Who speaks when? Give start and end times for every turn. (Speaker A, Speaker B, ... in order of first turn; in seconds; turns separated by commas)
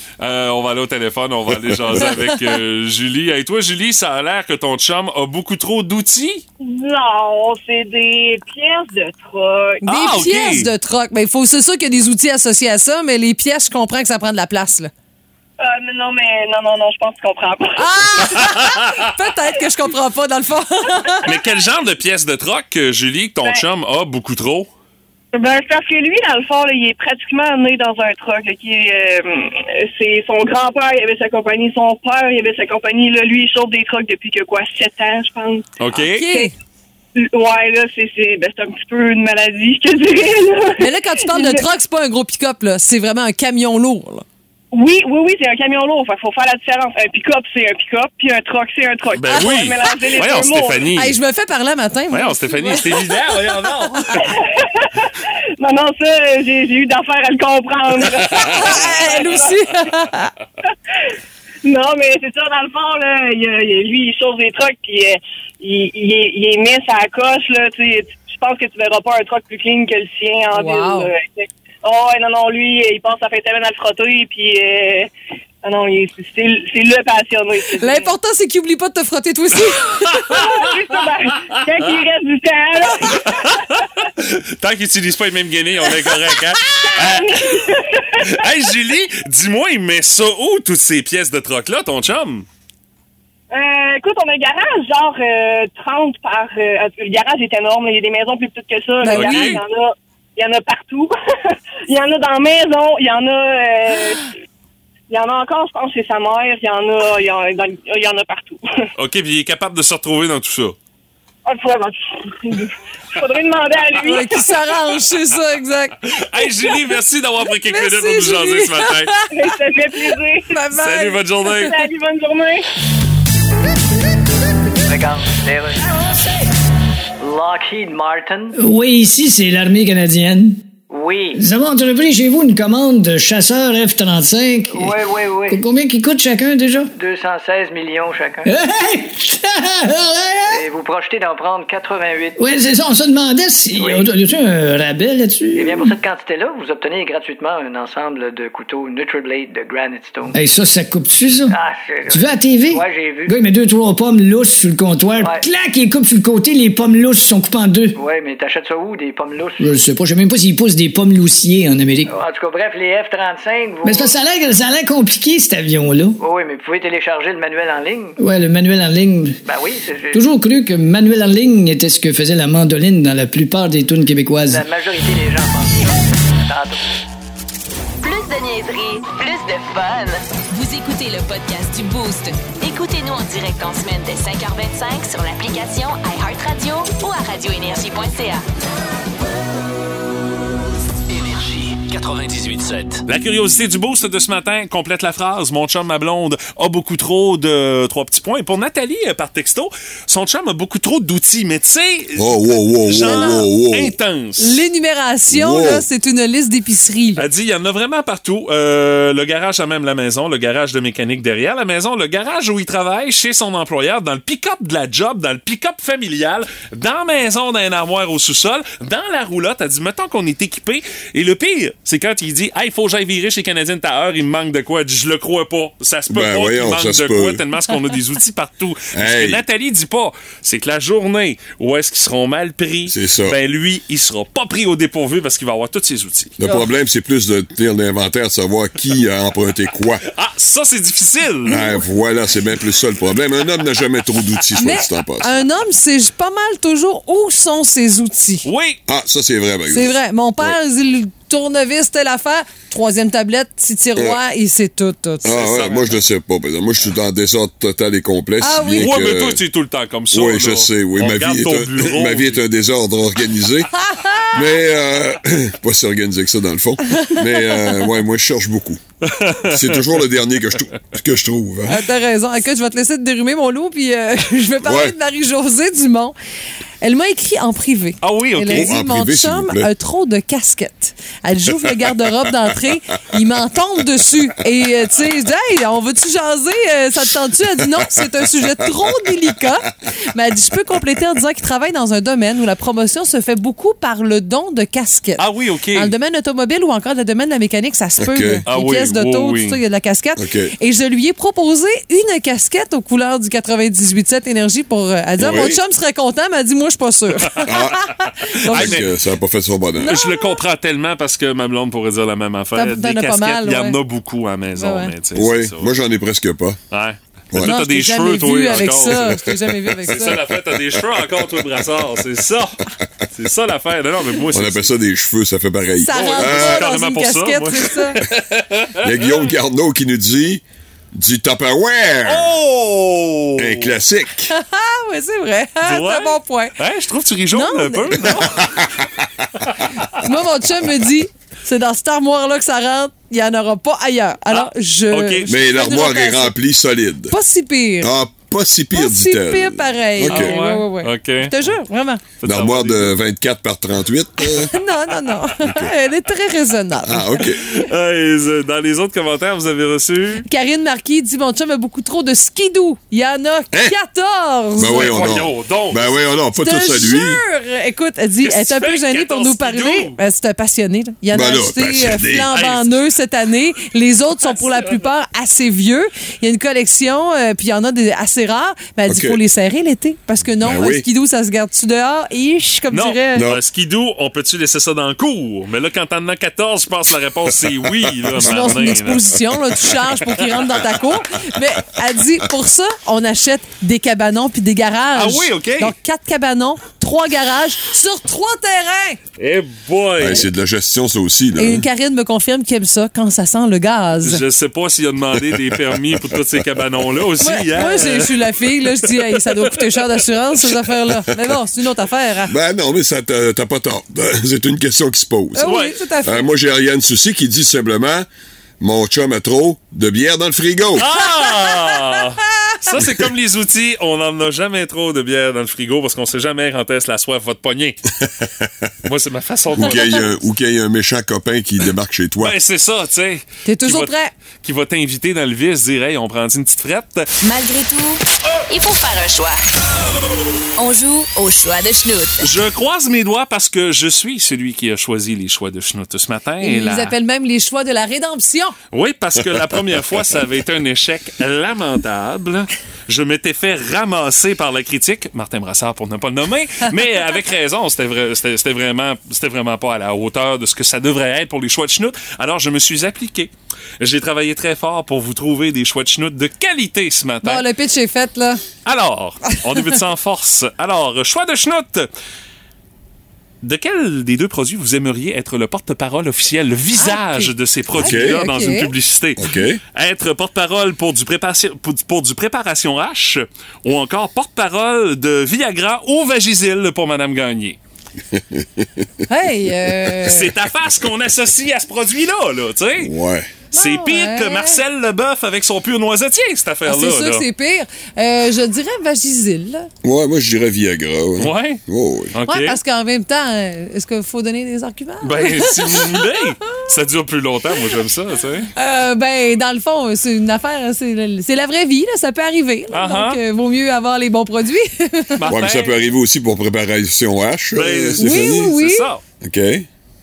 Speaker A: 0.2-6.5, Speaker B: 1.5-2.1, Speaker C: 2.0-2.6, Speaker D: 6.6-9.8, Speaker A: 9.9-10.7, Speaker C: 9.9-14.9, Speaker D: 15.6-18.0, Speaker C: 17.8-21.3, Speaker A: 18.3-19.0, Speaker A: 21.2-24.7, Speaker D: 25.3-35.7, Speaker A: 35.8-36.4, Speaker C: 35.9-36.5, Speaker D: 37.2-41.7, Speaker C: 40.8-44.2, Speaker D: 44.7-50.9, Speaker A: 49.1-51.1, Speaker C: 50.2-53.4, Speaker A: 52.1-54.3, Speaker D: 54.2-59.5, Speaker A: 58.2-58.9, Speaker C: 58.3-60.3, Speaker D: 61.6-75.1, Speaker C: 70.5-71.1, Speaker D: 75.6-78.1, Speaker C: 77.7-80.5, Speaker A: 80.0-80.7, Speaker D: 80.3-83.7, Speaker A: 83.1-87.5, Speaker D: 86.8-88.3, Speaker A: 88.2-92.5, Speaker D: 93.5-104.3, Speaker C: 99.0-99.6, Speaker A: 99.1-99.6, Speaker D: 105.1-108.7, Speaker A: 109.0-110.8, Speaker D: 111.5-114.4, Speaker C: 114.0-116.8, Speaker A: 116.0-119.1, Speaker C: 117.5-121.6, Speaker D: 119.3-120.6, Speaker A: 120.7-121.8, Speaker D: 121.6-122.7, Speaker E: 124.9-125.9, Speaker E: 127.2-128.6, Speaker F: 128.6-130.7, Speaker E: 130.9-131.4, Speaker F: 131.3-136.9, Speaker E: 134.7-135.6, Speaker E: 136.9-138.5, Speaker F: 138.5-140.6, Speaker E: 140.5-142.4, Speaker F: 142.4-146.0, Speaker E: 143.8-144.1, Speaker E: 145.6-150.4, Speaker F: 150.3-151.6, Speaker E: 151.5-153.4, Speaker F: 152.1-158.0, Speaker E: 155.2-155.5, Speaker E: 157.9-159.7, Speaker F: 159.6-162.1, Speaker E: 162.1-164.2, Speaker F: 163.8-166.2, Speaker E: 166.2-168.2, Speaker F: 168.2-169.4, Speaker E: 169.4-170.3, Speaker F: 170.1-174.6, Speaker E: 174.5-175.9, Speaker E: 176.5-176.8, Speaker G: 178.0-188.4, Speaker H: 191.1-193.1, Speaker A: 193.1-204.6, Speaker B: 202.2-204.0, Speaker C: 203.0-203.5, Speaker C: 204.4-207.2, Speaker B: 205.3-205.9, Speaker A: 207.2-236.4, Speaker B: 226.1-227.4, Speaker B: 228.9-229.4, Speaker B: 232.9-233.4, Speaker B: 236.4-240.0, Speaker A: 240.1-241.7, Speaker B: 241.5-245.4, Speaker C: 241.5-241.8, Speaker C: 244.6-248.5, Speaker A: 248.4-248.8, Speaker B: 248.9-250.6, Speaker C: 249.7-255.4, Speaker B: 255.2-259.4, Speaker A: 255.3-255.9, Speaker C: 258.4-259.0, Speaker A: 258.8-262.4, Speaker B: 260.1-263.7, Speaker C: 263.8-264.4, Speaker B: 264.3-268.8, Speaker C: 266.9-267.9, Speaker A: 269.0-269.8, Speaker B: 269.4-271.8, Speaker C: 271.7-276.1, Speaker B: 274.6-275.0, Speaker C: 276.8-308.9, Speaker A: 278.0-278.7, Speaker B: 278.5-279.7, Speaker B: 287.6-288.9, Speaker A: 295.2-295.9, Speaker B: 298.0-298.4, Speaker A: 298.5-299.6, Speaker B: 300.2-300.6, Speaker B: 305.2-305.6, Speaker B: 307.4-308.0, Speaker A: 308.1-308.9, Speaker B: 308.5-310.0, Speaker C: 309.8-310.4, Speaker A: 309.8-315.7, Speaker C: 312.6-313.8, Speaker C: 314.6-314.9, Speaker B: 315.1-316.6, Speaker A: 316.7-319.2, Speaker B: 317.3-317.6, Speaker C: 317.4-320.3, Speaker B: 318.5-321.5, Speaker A: 319.9-324.7, Speaker B: 324.3-326.7, Speaker C: 325.8-328.0, Speaker A: 325.9-329.2, Speaker B: 328.8-332.3, Speaker A: 332.1-333.8, Speaker B: 333.4-334.3, Speaker C: 334.3-336.6, Speaker A: 335.6-338.5, Speaker C: 337.3-338.4, Speaker B: 338.2-339.1, Speaker C: 339.9-346.4, Speaker A: 344.3-345.3, Speaker B: 345.3-347.1, Speaker C: 347.1-347.9, Speaker B: 347.8-350.4, Speaker C: 348.7-352.1, Speaker A: 350.0-351.4, Speaker A: 352.2-353.0, Speaker B: 352.2-354.5, Speaker C: 354.3-357.3, Speaker B: 355.4-355.7, Speaker B: 356.8-357.5, Speaker A: 357.2-360.3, Speaker C: 360.3-365.1, Speaker B: 364.6-367.2, Speaker A: 364.6-365.9, Speaker C: 366.4-383.3, Speaker A: 368.2-370.0, Speaker B: 371.1-372.3, Speaker A: 372.3-372.7, Speaker A: 374.2-374.8, Speaker B: 378.9-379.2, Speaker B: 380.4-380.9, Speaker A: 382.7-389.1, Speaker B: 383.1-383.4, Speaker B: 387.5-388.6, Speaker C: 388.2-399.0, Speaker A: 394.9-395.7, Speaker A: 399.2-400.2, Speaker B: 400.0-401.7, Speaker C: 401.4-404.2, Speaker A: 404.0-409.8, Speaker B: 405.3-406.1, Speaker C: 407.2-412.4, Speaker B: 412.3-418.1, Speaker C: 415.4-416.3, Speaker A: 415.4-415.8, Speaker B: 418.6-420.9, Speaker A: 420.8-427.8, Speaker C: 421.2-422.0, Speaker A: 428.9-430.1, Speaker B: 429.6-432.4, Speaker A: 432.2-437.1, Speaker C: 433.4-434.1, Speaker G: 437.2-439.4, Speaker G: 440.6-442.2, Speaker A: 442.2-446.9, Speaker C: 446.4-448.6, Speaker A: 448.7-467.4, Speaker C: 467.2-468.4, Speaker A: 468.6-471.9, Speaker A: 473.4-487.6, Speaker C: 476.8-478.7, Speaker B: 477.8-478.2, Speaker B: 479.2-479.6, Speaker B: 488.1-488.9, Speaker C: 489.1-490.3, Speaker A: 490.0-492.9, Speaker B: 492.8-493.4, Speaker C: 493.5-494.6, Speaker A: 493.5-497.2, Speaker C: 496.7-499.7, Speaker B: 499.8-502.1, Speaker A: 501.2-501.6, Speaker A: 502.1-502.6, Speaker C: 502.3-506.6, Speaker A: 505.0-508.5, Speaker C: 508.6-515.3, Speaker A: 512.7-513.2, Speaker A: 515.2-515.8, Speaker B: 515.3-518.5, Speaker A: 517.5-519.0, Speaker C: 518.0-518.9, Speaker B: 519.2-519.7